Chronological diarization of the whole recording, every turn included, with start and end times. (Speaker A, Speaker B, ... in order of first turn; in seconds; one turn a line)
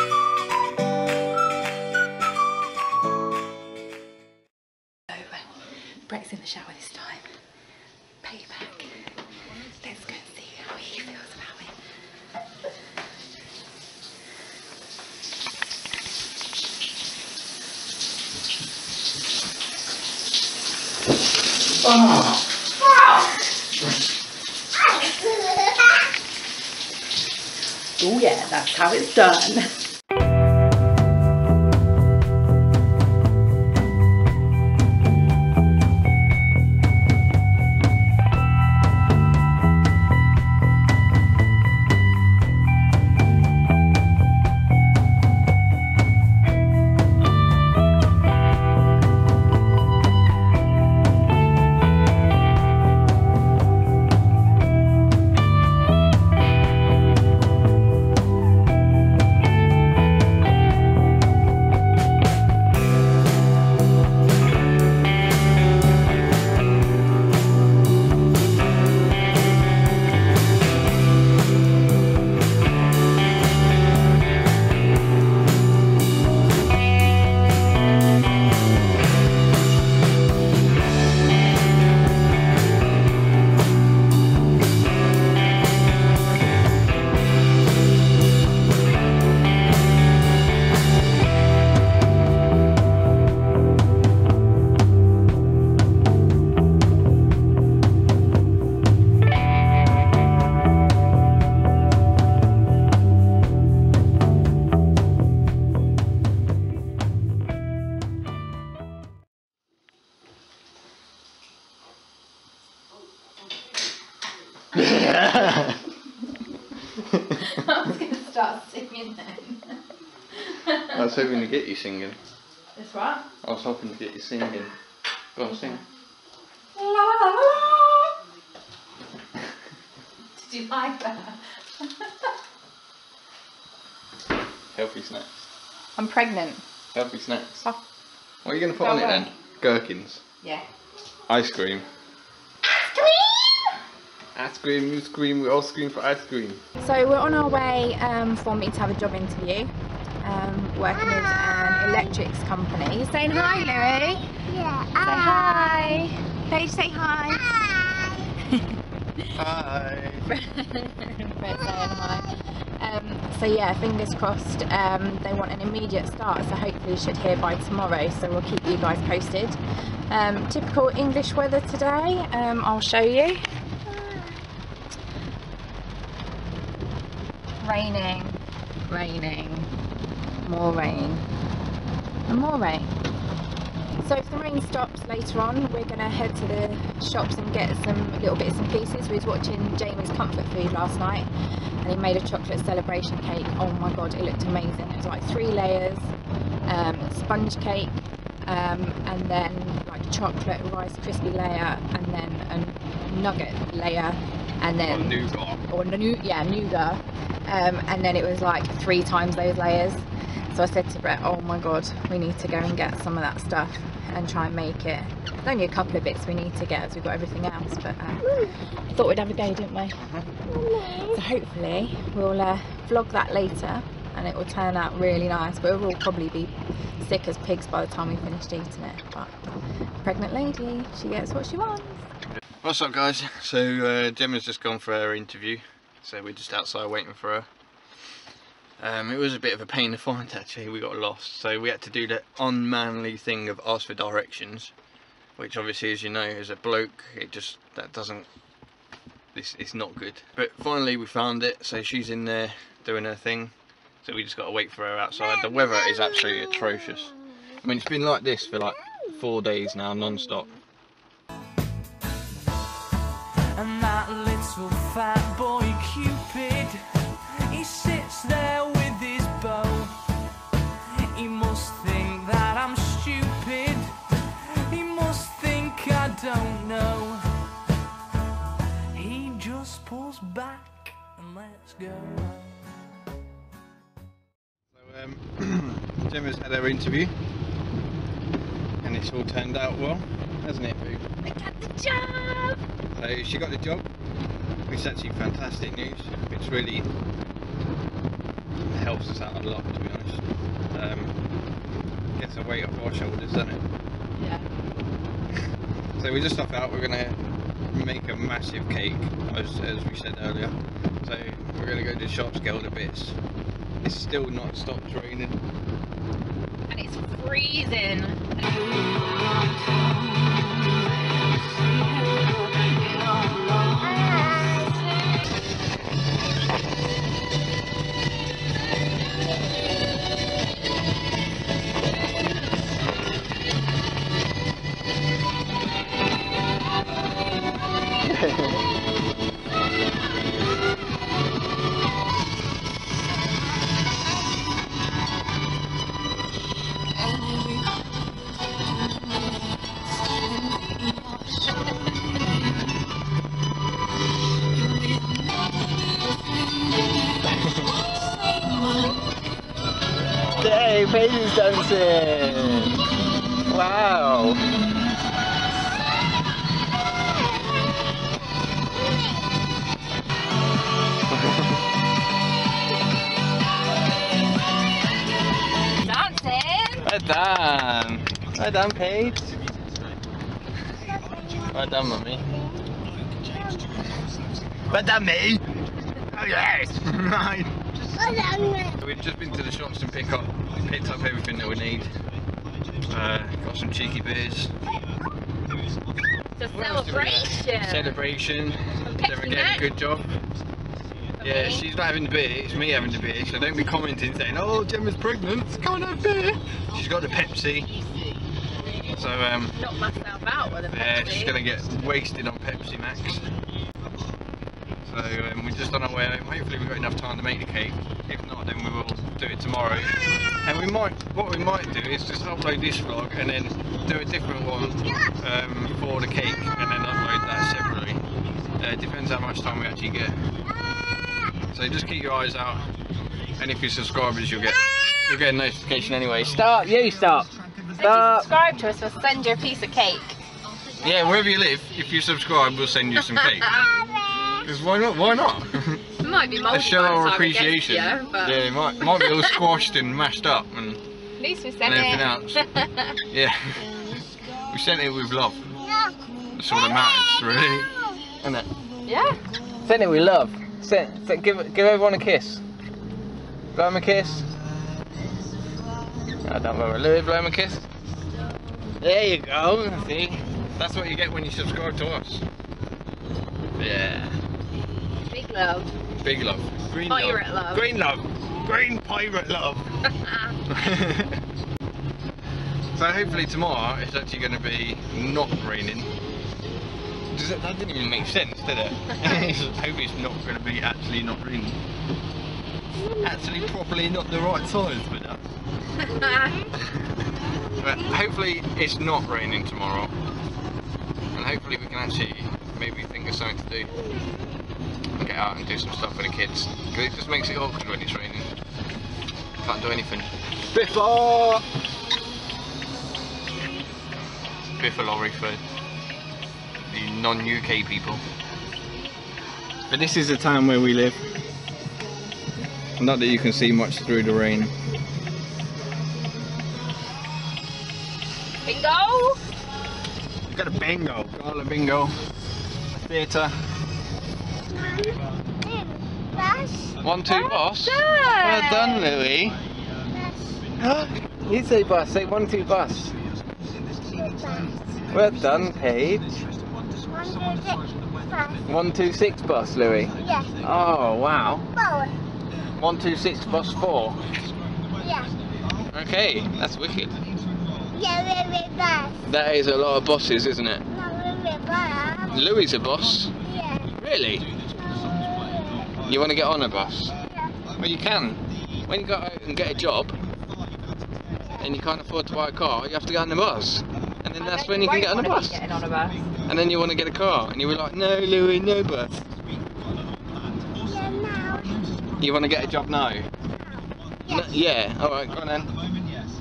Speaker A: 5.1-7.3
Speaker A: 8.2-8.9
Speaker A: 9.8-11.7
Speaker A: 28.0-29.7
Speaker B: 114.7-115.8
Speaker A: 117.3-119.8
Speaker A: 120.5-120.9
Speaker B: 120.9-122.2
Speaker A: 122.8-123.2
Speaker B: 123.4-124.7
Speaker B: 125.3-125.8
Speaker A: 125.5-125.8
Speaker A: 126.8-128.1
Speaker A: 130.4-131.4
Speaker B: 134.7-135.4
Speaker A: 135.9-136.6
Speaker B: 136.9-137.6
Speaker B: 138.4-140.2
Speaker A: 138.8-139.3
Speaker B: 141.3-141.8
Speaker A: 142.9-143.6
Speaker B: 144.3-146.6
Speaker A: 146.8-154.3
Speaker C: 154.5-155.6
Speaker A: 155.0-157.5
Speaker B: 159.3-160.3
Speaker A: 160.3-173.4
Speaker A: 177.6-179.7
Speaker A: 180.4-181.2
Speaker A: 182.3-182.9
Speaker A: 184.0-191.3
Speaker A: 191.8-196.1
Speaker A: 196.7-197.9
Speaker A: 198.4-220.0
Speaker B: 204.8-205.6
Speaker B: 220.0-220.3
Speaker A: 220.8-229.3
Speaker A: 230.0-232.0
Speaker B: 232.6-237.5
Speaker B: 238.8-244.7
Speaker B: 245.4-248.3
Speaker B: 249.3-260.6
Speaker D: 263.5-270.0
Speaker D: 271.1-277.2
Speaker D: 278.9-282.5
Speaker B: 284.7-287.1
Speaker B: 288.8-291.1
Speaker A: 291.2-292.6
Speaker B: 292.9-293.9
Speaker B: 294.7-296.9
Speaker B: 298.6-301.2
Speaker B: 302.1-303.6
Speaker B: 306.0-313.2
Speaker B: 313.8-315.4
Speaker A: 316.7-318.3
Speaker A: 319.5-320.3
Speaker A: 321.7-324.6
Speaker B: 338.1-338.6
Speaker A: 347.1-347.6
Speaker A: 350.3-351.1
Speaker A: 358.2-358.9
Speaker B: 360.3-362.8
Speaker B: 363.5-364.5
Speaker A: 375.8-376.8
Speaker B: 376.8-379.4
Speaker B: 381.4-382.3
Speaker B: 384.7-387.6
Speaker C: 388.1-388.7
Speaker B: 388.7-391.9
Speaker B: 392.8-394.5
Speaker A: 396.4-398.0
Speaker B: 396.5-400.2
Speaker A: 398.9-399.6
Speaker A: 401.2-401.6
Speaker B: 401.2-407.7
Speaker B: 408.9-409.6
Speaker A: 409.6-411.3
Speaker B: 410.7-413.3
Speaker B: 414.9-428.1
Speaker B: 428.6-430.2
Speaker B: 431.5-432.7
Speaker B: 433.4-438.3
Speaker A: 437.8-440.1
Speaker B: 440.8-443.5
Speaker A: 443.4-443.7
Speaker B: 444.4-445.8
Speaker A: 446.0-448.4
Speaker B: 446.5-450.8
Speaker A: 451.2-452.0
Speaker B: 451.6-452.4
Speaker B: 453.1-453.9
Speaker B: 454.5-455.6
Speaker B: 456.3-458.5
Speaker A: 458.9-459.2
Speaker B: 459.6-462.4
Speaker B: 463.5-464.3
Speaker B: 466.2-467.7
Speaker B: 468.8-472.2
Speaker B: 473.6-474.2
Speaker A: 475.1-475.7
Speaker B: 476.0-479.8
Speaker A: 476.9-477.6
Speaker B: 480.5-481.2
Speaker B: 482.7-485.9
Speaker B: 487.1-491.6
Speaker B: 492.8-495.2
Speaker A: 495.9-496.4
Speaker B: 497.4-499.9
Speaker B: 501.1-503.7
Speaker B: 504.9-508.3
Speaker B: 509.4-511.4
Speaker B: 514.6-515.4
Speaker B: 516.7-518.0
Speaker B: 519.7-521.0
Speaker B: 522.8-524.5
Speaker A: 528.4-529.2
Speaker B: 530.3-532.0
Speaker B: 532.7-533.3
Speaker C: 536.2-536.7
Speaker B: 536.8-539.4
Speaker A: 537.1-538.8
Speaker B: 540.6-543.0
Speaker B: 544.9-546.2
Speaker C: 546.9-547.6
Speaker B: 548.4-551.5
Speaker C: 550.1-550.3
Speaker B: 552.5-554.0
Speaker B: 555.7-557.0
Speaker C: 557.8-559.0
Speaker B: 559.0-560.7
Speaker C: 560.8-562.0
Speaker B: 562.0-563.1
Speaker B: 563.7-564.3
Speaker B: 565.8-567.0
Speaker B: 567.6-570.0
Speaker B: 571.3-575.4
Speaker A: 574.2-576.1
Speaker B: 576.2-579.0
Speaker C: 580.8-581.5
Speaker B: 582.0-583.1
Speaker B: 584.0-585.5